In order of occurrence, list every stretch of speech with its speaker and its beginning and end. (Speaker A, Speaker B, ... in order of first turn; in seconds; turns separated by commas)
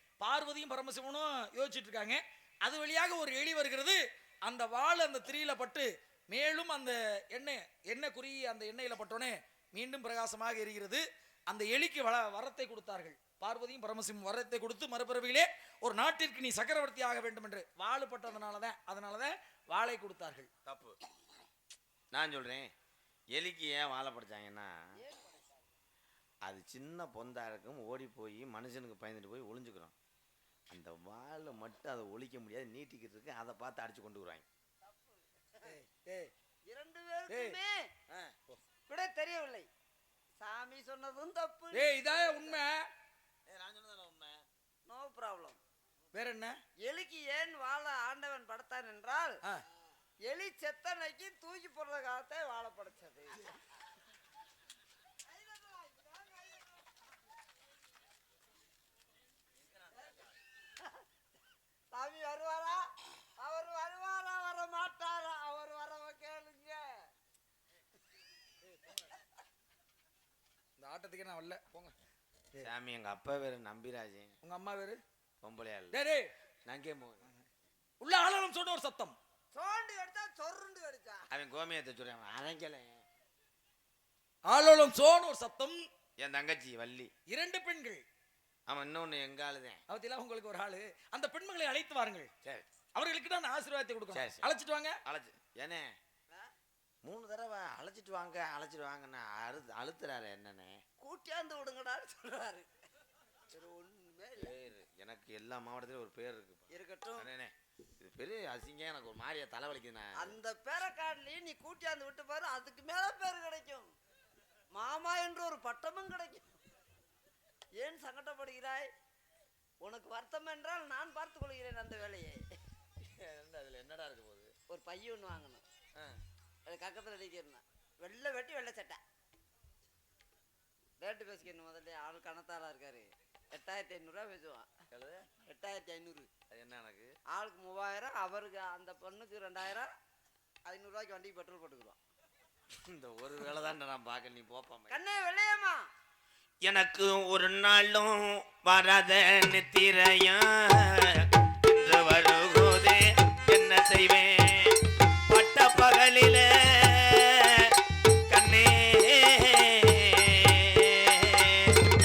Speaker A: 0.2-20.5, Speaker B: 20.7-21.0, Speaker B: 22.1-22.7, Speaker B: 23.3-24.7, Speaker C: 25.0-25.6, Speaker B: 26.4-29.9, Speaker B: 30.7-34.5, Speaker C: 34.8-35.8, Speaker A: 35.6-36.3, Speaker C: 36.7-37.9, Speaker A: 37.3-37.6, Speaker B: 38.1-38.4, Speaker C: 38.9-39.7, Speaker C: 40.4-42.6, Speaker A: 41.7-42.9, Speaker B: 43.5-44.4, Speaker C: 44.9-45.6, Speaker A: 46.1-46.6, Speaker C: 46.8-49.4, Speaker C: 50.2-53.5, Speaker C: 55.2-57.0, Speaker C: 61.9-67.1, Speaker A: 70.8-72.0, Speaker B: 72.6-74.3, Speaker A: 74.4-75.0, Speaker B: 75.4-76.0, Speaker A: 75.9-76.3, Speaker B: 76.7-77.2, Speaker A: 78.0-79.2, Speaker C: 79.5-81.2, Speaker B: 81.3-83.0, Speaker A: 84.5-85.8, Speaker B: 86.2-87.1, Speaker A: 87.3-88.0, Speaker B: 88.7-89.8, Speaker A: 89.9-92.3, Speaker A: 93.0-95.0, Speaker B: 94.1-94.5, Speaker B: 95.0-96.0, Speaker B: 97.0-100.8, Speaker C: 101.0-102.7, Speaker C: 103.5-104.5, Speaker B: 104.4-110.4, Speaker C: 106.7-107.3, Speaker C: 110.2-113.9, Speaker C: 114.7-116.5, Speaker C: 117.8-118.9, Speaker C: 119.8-122.5, Speaker B: 123.0-124.5, Speaker C: 124.7-125.6, Speaker B: 126.0-126.2, Speaker C: 126.7-129.0, Speaker C: 131.0-134.7, Speaker B: 134.9-135.3, Speaker C: 135.4-136.3, Speaker B: 136.5-137.1, Speaker C: 137.3-139.9, Speaker C: 140.7-142.0, Speaker B: 142.7-145.0, Speaker C: 144.9-145.9, Speaker B: 146.6-157.8, Speaker B: 158.3-161.8